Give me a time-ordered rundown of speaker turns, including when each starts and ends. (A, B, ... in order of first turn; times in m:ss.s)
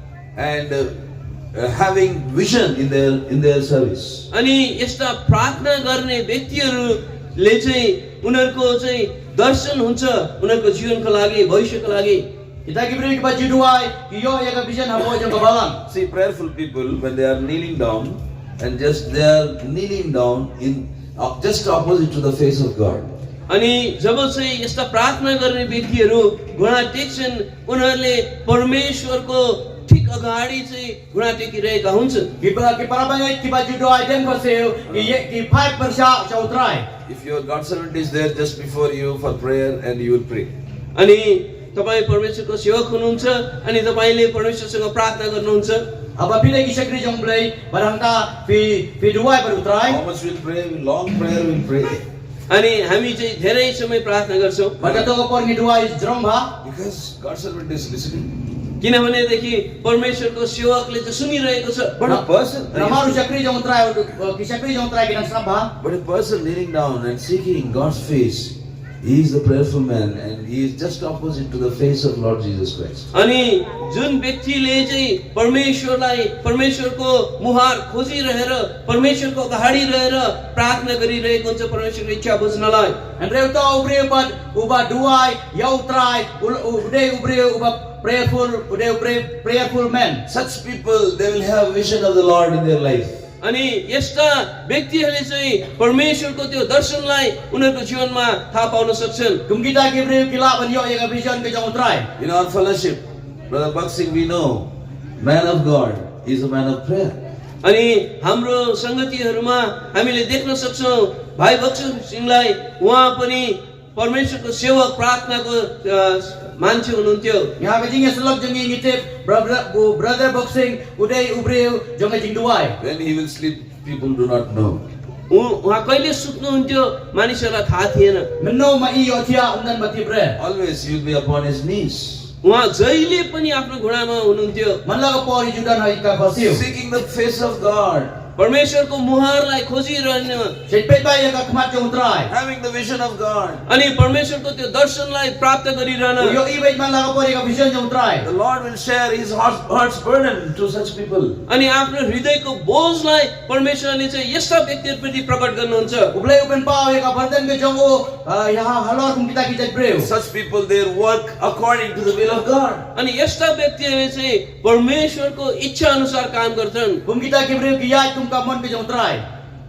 0:00.4-0:01.0 A
0:01.5-0:04.3 A
0:04.3-0:12.2 B
0:12.6-0:15.8 C
0:15.9-0:23.1 A
0:23.5-0:32.3 B
0:32.4-0:36.8 C
0:34.9-0:35.2 A
0:37.0-0:40.5 A
0:40.9-0:45.8 B
0:46.2-0:50.0 C
0:49.8-0:52.0 A
0:52.5-0:54.8 B
0:54.8-0:56.5 C
0:56.6-0:58.3 A
0:58.8-1:02.0 B
1:02.0-1:03.2 A
1:02.0-1:05.7 C
1:05.8-1:13.1 A
1:13.1-1:23.0 B
1:23.2-1:30.2 C
1:30.3-1:33.2 A
1:33.4-1:39.4 B
1:39.5-1:42.0 C
1:42.2-1:47.2 A
1:47.6-1:57.5 B
1:57.6-2:02.8 C
2:02.8-2:04.8 A
2:05.3-2:08.3 B
2:08.4-2:10.4 C
2:10.4-2:12.3 A
2:12.4-2:14.8 B
2:14.8-2:16.6 C
2:16.4-2:18.2 A
2:18.4-2:20.5 B
2:20.7-2:22.3 C
2:22.3-2:23.6 A
2:23.7-2:26.4 B
2:26.2-2:28.3 C
2:28.2-2:31.4 A
2:31.5-2:36.1 B
2:36.1-2:40.1 C
2:40.0-2:42.8 A
2:42.9-2:47.0 B
2:47.0-2:49.2 C